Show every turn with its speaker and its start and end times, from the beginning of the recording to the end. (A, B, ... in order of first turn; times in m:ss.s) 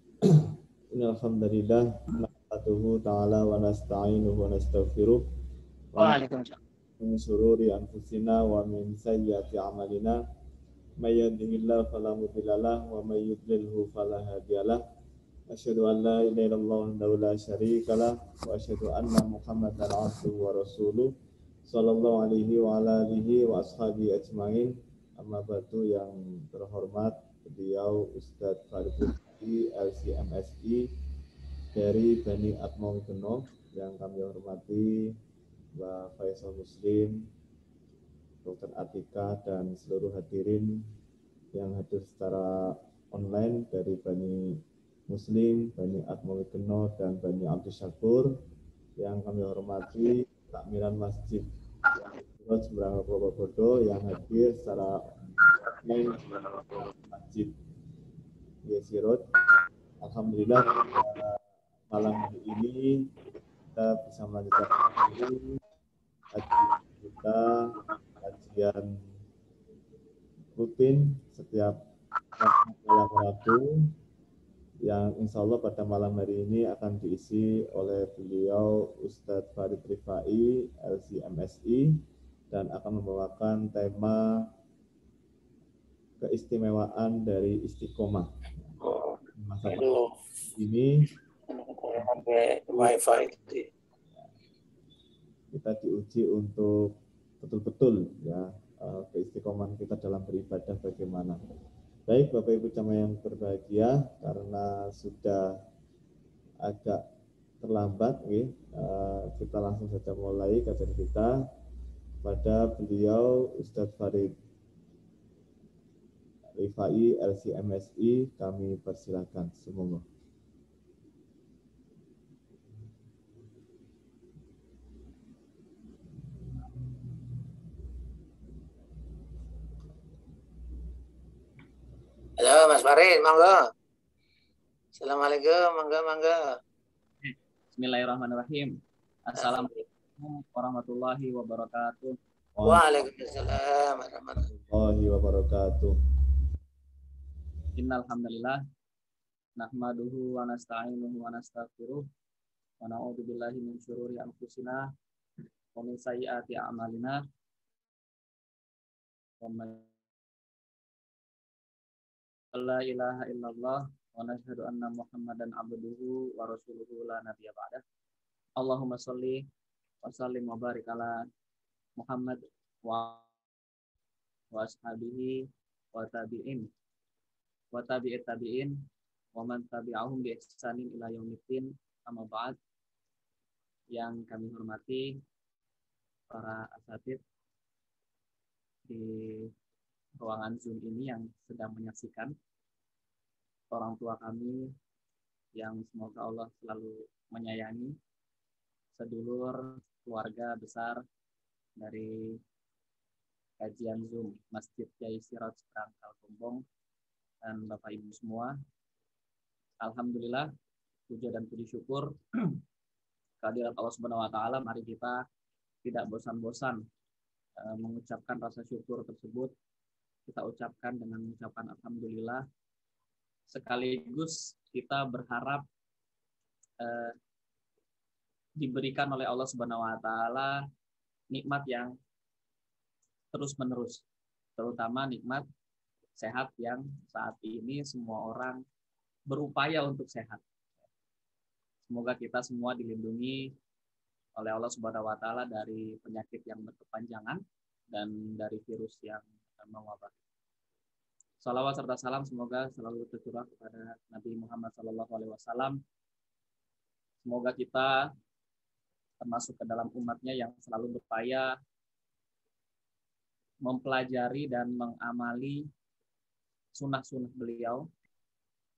0:00.3-0:05.2 A
0:05.9-0:06.2 A
0:07.0-0:10.2 A
0:11.0-0:14.8 A
0:15.5-0:21.1 A
0:21.6-0:30.8 A
0:31.7-0:35.1 A
0:35.7-0:37.3 A
0:38.4-0:40.8 A
0:41.5-0:48.4 A
0:49.0-0:51.5 A
0:52.3-0:55.0 A
0:55.8-0:57.5 A
0:58.6-0:59.2 A
1:00.0-1:03.1 A
1:03.7-1:05.6 A
1:06.3-1:09.0 A
1:10.6-1:11.8 A
1:12.4-1:13.9 A
1:14.8-1:22.0 A
1:22.5-1:24.5 A
1:26.2-1:28.3 A
1:28.8-1:29.2 B
1:29.4-1:29.9 A
1:29.7-1:30.1 B
1:30.5-1:31.1 A
1:31.5-1:33.6 B
1:35.5-1:41.4 A
1:42.1-1:45.6 A
1:46.6-1:47.0 A
1:47.6-1:51.4 A
1:52.2-1:54.3 A
1:56.6-2:00.0 A
2:12.4-2:13.6 B
2:15.0-2:16.4 B
2:17.2-2:22.2 C
2:22.6-2:22.8 A
2:22.6-2:24.4 B
2:24.5-2:26.0 A
2:27.8-2:28.6 C
2:29.6-2:32.1 C
2:32.8-2:34.9 C
2:35.7-2:37.2 C
2:39.4-2:39.9 C
2:42.5-2:47.8 C
2:48.6-2:49.4 C
2:50.0-2:51.2 C
2:52.0-2:53.3 C
2:54.5-2:56.7 C
2:57.7-3:02.6 C
3:03.9-3:05.2 C
3:06.3-3:07.2 C
3:08.8-3:09.5 C
3:10.2-3:12.3 C
3:13.7-3:14.7 C
3:15.5-3:18.0 C
3:19.0-3:21.0 C
3:21.8-3:22.4 C
3:23.6-3:26.6 C
3:27.4-3:28.5 C
3:29.8-3:30.5 C
3:31.1-3:32.6 C
3:33.4-3:35.2 C
3:35.8-3:36.8 C
3:37.6-3:39.5 C
3:40.3-3:42.4 C
3:43.5-3:45.6 C
3:46.8-3:47.2 C
3:48.6-3:50.6 C
3:51.3-3:51.9 C
3:53.3-3:54.0 C
3:54.6-3:55.4 C
3:56.1-3:58.6 C
3:59.3-4:00.4 C
4:01.9-4:03.5 C
4:04.3-4:10.1 C
4:11.4-4:15.8 C
4:17.2-4:18.1 C
4:19.2-4:21.5 C
4:23.6-4:25.7 C
4:26.7-4:27.9 C